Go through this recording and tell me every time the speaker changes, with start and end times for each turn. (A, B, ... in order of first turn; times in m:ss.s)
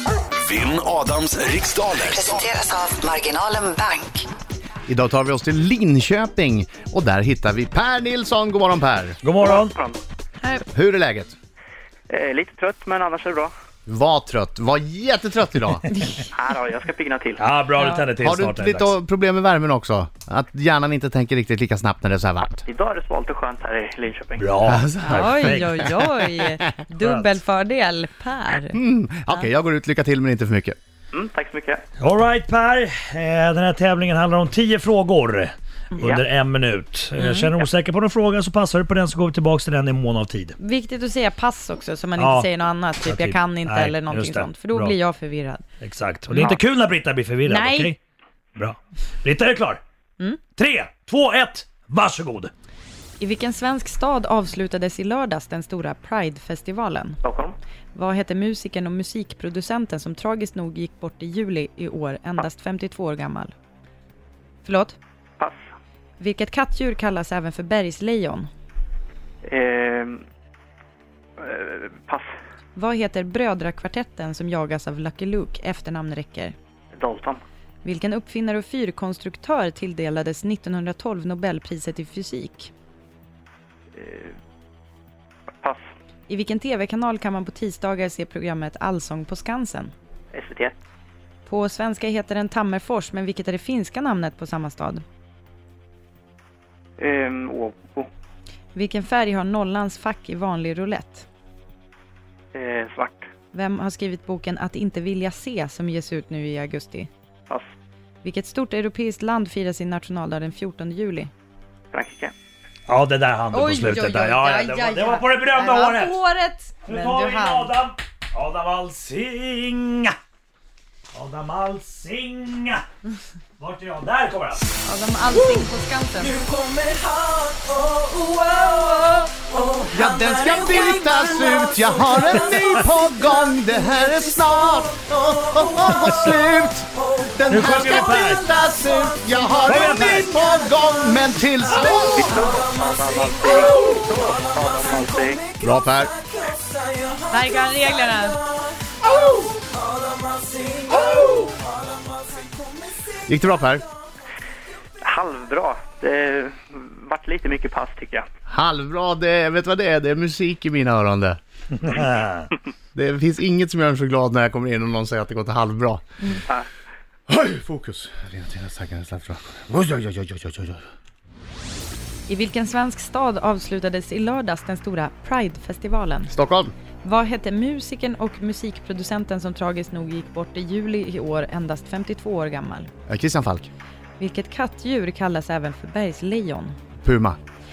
0:00.4-0:02.5 A
0:02.0-0:04.3 B
0:04.9-0:09.2 C
0:09.2-0:09.8 D
0:09.4-0:10.0 E
0:10.7-0:11.3 C
0:12.1-0:13.5 E
0:13.9-0:15.8 C
0:16.3-0:17.4 E
0:17.4-0:18.9 D
0:17.8-0:18.0 F
0:18.2-0:22.6 C
0:22.7-0:24.4 E
0:24.4-0:25.9 D
0:24.7-0:26.0 C
0:25.0-0:28.8 F
0:27.0-0:27.3 D
0:28.7-0:30.8 C
0:31.1-0:31.8 E
0:32.0-0:40.6 D
0:37.2-0:37.5 F
0:40.6-0:45.6 F
0:42.2-0:42.5 D
0:43.0-0:45.0 D
0:45.8-0:48.0 D
0:46.3-0:46.6 F
0:47.4-0:47.9 F
0:48.6-0:49.8 D
0:50.6-0:52.5 D
0:53.2-0:57.2 F
0:57.2-0:57.5 E
0:57.9-1:03.5 F
1:04.6-1:05.0 F
1:06.2-1:08.5 F
1:09.4-1:10.2 E
1:11.4-1:12.3 E
1:12.8-1:16.5 F
1:17.0-1:17.4 E
1:17.8-1:22.7 F
1:24.0-1:24.3 E
1:26.3-1:29.9 F
1:30.3-1:30.7 E
1:31.4-1:35.0 F
1:37.0-1:38.1 E
1:38.7-1:41.3 F
1:42.5-1:43.2 E
1:43.5-1:47.1 F
1:48.2-1:51.3 F
1:51.9-1:52.3 E
1:52.9-1:56.2 D
1:53.5-1:57.7 F
1:56.8-2:00.1 D
2:01.1-2:02.8 D
2:03.6-2:04.6 D
2:04.8-2:06.4 F
2:06.2-2:12.6 D
2:09.9-2:22.3 C
2:15.8-2:16.3 D
2:17.5-2:18.4 D
2:19.6-2:20.4 D
2:22.1-2:25.4 E
2:25.6-2:26.2 C
2:27.3-2:28.4 F
2:29.0-2:29.9 D
2:30.5-2:31.6 D
2:33.2-2:33.8 C
2:35.0-2:38.3 E
2:38.5-2:41.4 C
2:41.8-2:42.5 D
2:42.9-2:46.4 C
2:47.3-2:50.8 C
2:52.3-2:56.3 F
2:56.3-2:56.7 C
2:57.0-3:02.9 F
3:03.1-3:03.7 C
3:04.2-3:06.8 F
3:07.0-3:07.4 C